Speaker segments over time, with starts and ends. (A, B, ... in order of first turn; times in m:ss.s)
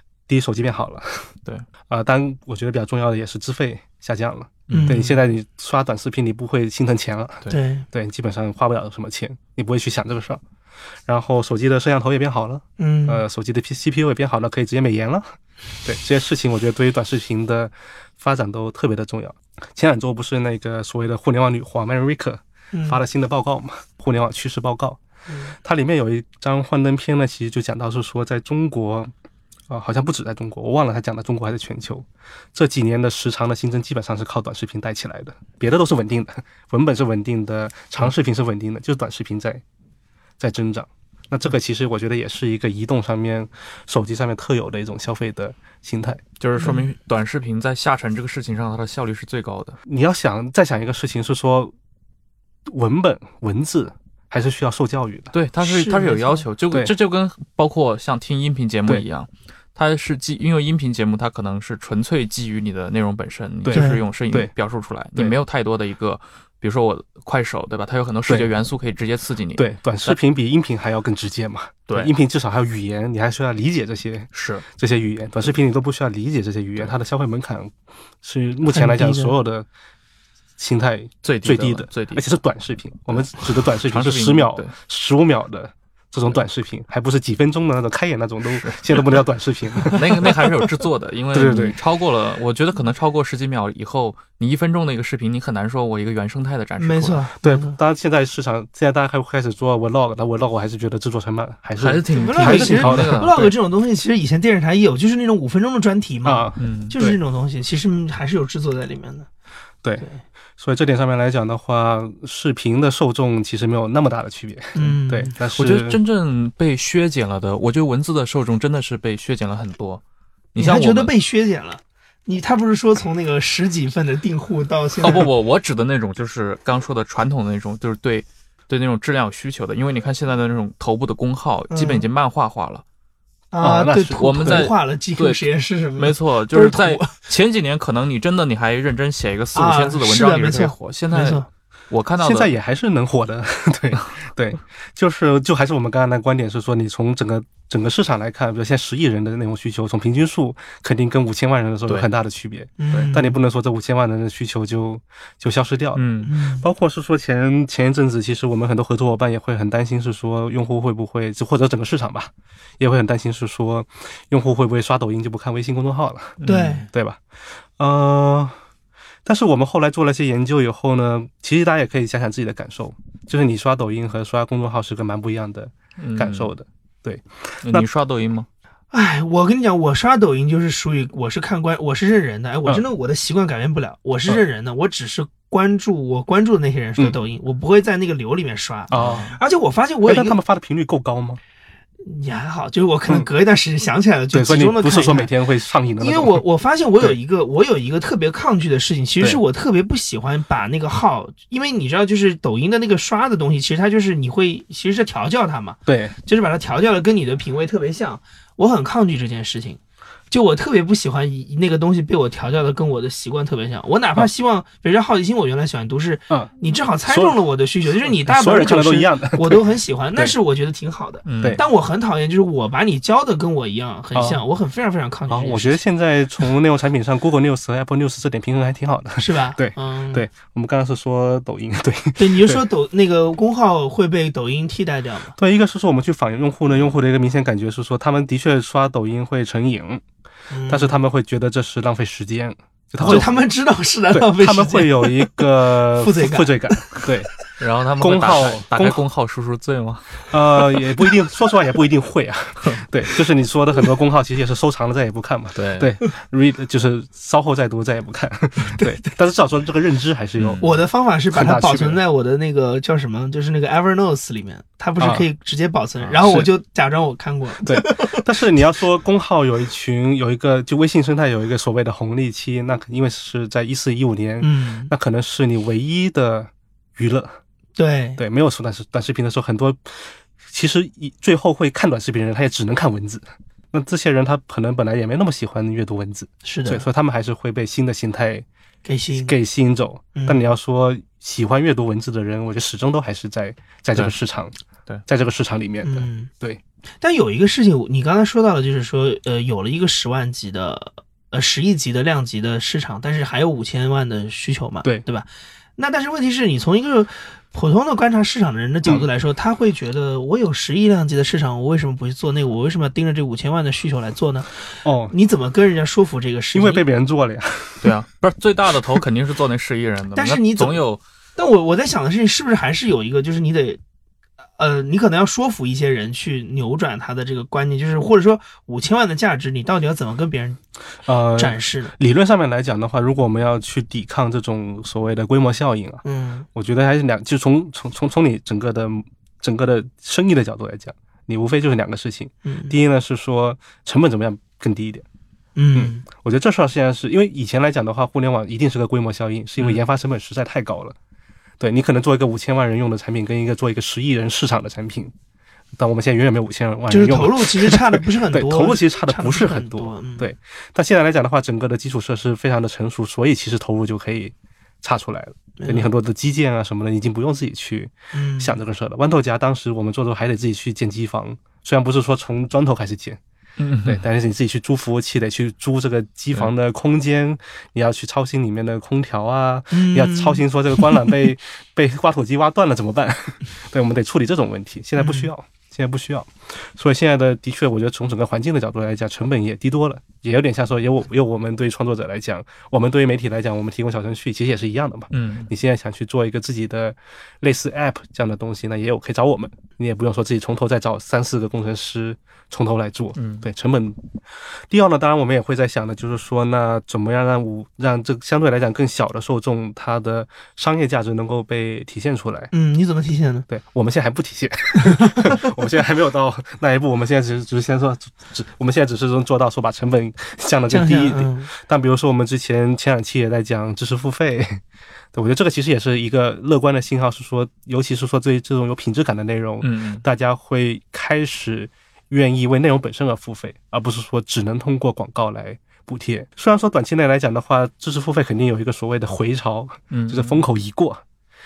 0:00.3-0:01.3 A
0:01.9-0:10.4 A
0:04.7-0:05.0 B
0:04.7-0:05.2 C
0:07.5-0:07.9 C
0:11.1-0:25.0 A
0:12.8-0:13.2 C
0:22.7-0:23.0 C
0:25.3-0:25.6 C
0:25.6-0:29.1 A
0:29.7-0:39.6 A
0:40.4-0:46.2 A
0:46.4-0:49.8 B
0:49.9-0:51.8 A
0:52.7-0:55.3 A
0:55.3-1:10.2 B
0:55.6-0:56.4 C
1:03.6-1:04.5 A
1:03.7-1:04.0 C
1:09.6-1:17.7 A
1:14.3-1:14.6 B
1:18.2-1:19.7 A
1:18.7-1:19.4 C
1:20.6-1:30.4 A
1:21.2-1:22.2 B
1:23.1-1:24.7 B
1:28.6-1:29.0 B
1:29.9-1:37.3 B
1:31.3-1:31.8 A
1:36.8-1:37.8 C
1:37.4-1:43.3 A
1:41.8-1:43.6 B
1:42.1-1:49.3 C
1:46.2-1:47.2 A
1:46.6-1:47.0 B
1:50.6-1:56.0 A
1:54.8-1:55.3 C
1:55.4-2:00.0 B
2:00.5-2:01.1 B
2:00.6-2:05.3 C
2:05.0-2:12.8 B
2:11.7-2:12.0 C
2:13.5-2:17.1 C
2:13.6-2:14.7 A
2:14.2-2:22.5 B
2:19.6-2:21.5 C
2:22.2-2:47.2 A
2:32.8-2:33.4 C
2:36.0-2:36.3 B
2:36.2-2:36.6 C
2:46.4-2:46.9 B
2:46.4-2:46.9 C
2:47.8-2:48.6 A
2:49.2-2:57.9 A
2:56.0-2:56.5 B
2:57.6-2:58.5 B
2:58.9-3:10.4 C
3:08.9-3:09.3 A
3:08.9-3:09.4 B
3:10.0-3:11.4 A
3:12.0-3:15.3 C
3:14.3-3:16.4 A
3:16.0-3:29.8 C
3:25.9-3:26.2 A
3:30.3-3:45.8 C
3:37.1-3:37.4 A
3:38.0-3:40.3 A
3:41.3-3:41.6 B
3:44.2-3:44.4 A
3:45.3-3:52.6 A
3:49.2-3:50.2 C
3:52.2-3:55.4 C
3:55.4-4:00.0 A
4:00.5-4:00.9 C
4:00.7-4:03.3 A
4:03.0-4:07.0 C
4:04.1-4:07.3 A
4:07.6-4:10.3 B
4:08.0-4:09.0 A
4:10.3-4:20.6 A
4:15.6-4:15.9 B
4:18.7-4:19.1 C
4:20.4-4:20.7 B
4:20.6-4:28.8 C
4:21.3-4:22.0 A
4:25.0-4:25.3 A
4:27.6-4:37.4 A
4:34.4-4:34.9 C
4:37.8-4:38.2 C
4:38.2-4:48.5 A
4:46.4-4:46.8 C
4:48.8-4:49.4 C
4:49.2-4:54.5 A
4:50.2-4:50.5 C
4:55.1-4:56.6 A
4:55.8-4:56.3 C
4:57.0-5:14.5 C
5:14.8-5:15.1 A
5:15.1-5:16.8 C
5:16.5-5:17.9 A
5:17.8-5:21.0 B
5:20.2-5:20.8 C
5:21.4-5:23.8 C
5:24.6-5:30.6 C
5:31.1-5:36.0 A
5:31.4-5:31.9 C
5:36.0-5:36.5 C
5:36.5-5:45.0 A
5:42.4-5:42.8 C
5:45.6-5:46.0 C
5:45.8-5:51.0 A
5:51.6-5:55.1 A
5:55.8-6:13.2 A
5:56.9-6:00.3 C
6:05.6-6:05.9 C
6:08.1-6:08.6 C
6:13.6-6:14.0 B
6:13.8-6:44.0 A
6:19.7-6:21.1 C
6:25.0-6:25.3 C
6:35.1-6:35.5 B
6:43.2-6:43.5 B
6:44.7-6:52.5 A
6:52.5-6:53.5 C
6:53.5-7:04.6 A
6:54.8-6:55.4 C
7:00.7-7:01.5 C
7:05.1-7:21.0 A
7:09.6-7:10.0 B
7:19.9-7:20.4 B